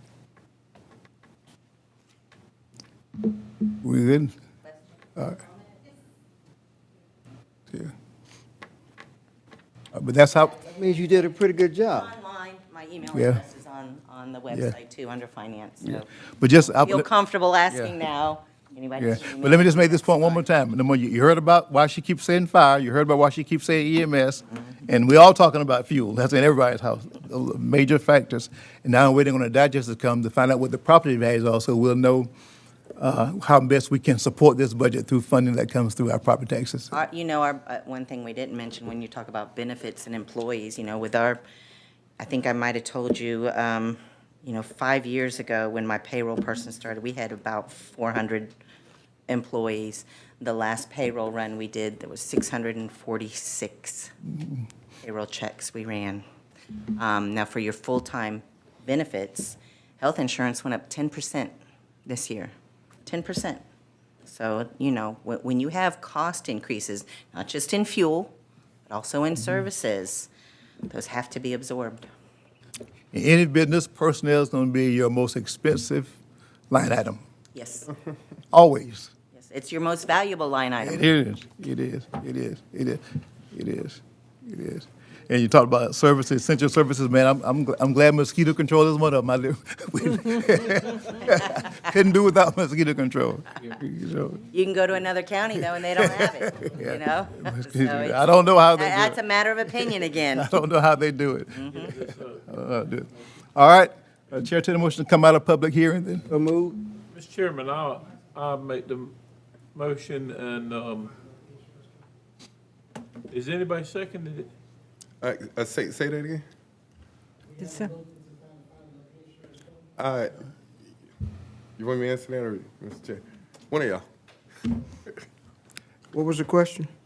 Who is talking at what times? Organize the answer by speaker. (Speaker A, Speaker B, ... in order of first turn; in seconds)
Speaker A: 3.8-4.3, 9.9-10.6, 13.1-13.4, 15.9-17.1, 19.0-32.3, 33.0-37.0, 73.1-76.2, 76.7-77.2, 78.5-79.1, 80.8-94.5, 95.8-99.2, 100.3-101.9, 102.5-106.3
Speaker B: 10.7-12.1, 106.3-106.8, 126.1-126.9
Speaker C: 10.8-11.1, 11.8-16.1, 16.7-20.4, 36.9-41.4, 42.2-48.5, 49.3-54.1, 55.0-56.2, 56.9-61.5, 62.1-62.5, 63.1-63.6, 64.3-68.3, 68.9-70.3, 70.9-72.1, 77.5-77.9, 79.3-81.1, 94.5-100.5, 101.5-101.9
Speaker D: 101.7-102.5, 107.1-109.1, 109.8-111.2, 113.3-114.5
Speaker E: 115.2-116.4, 120.0-120.4, 121.8-124.0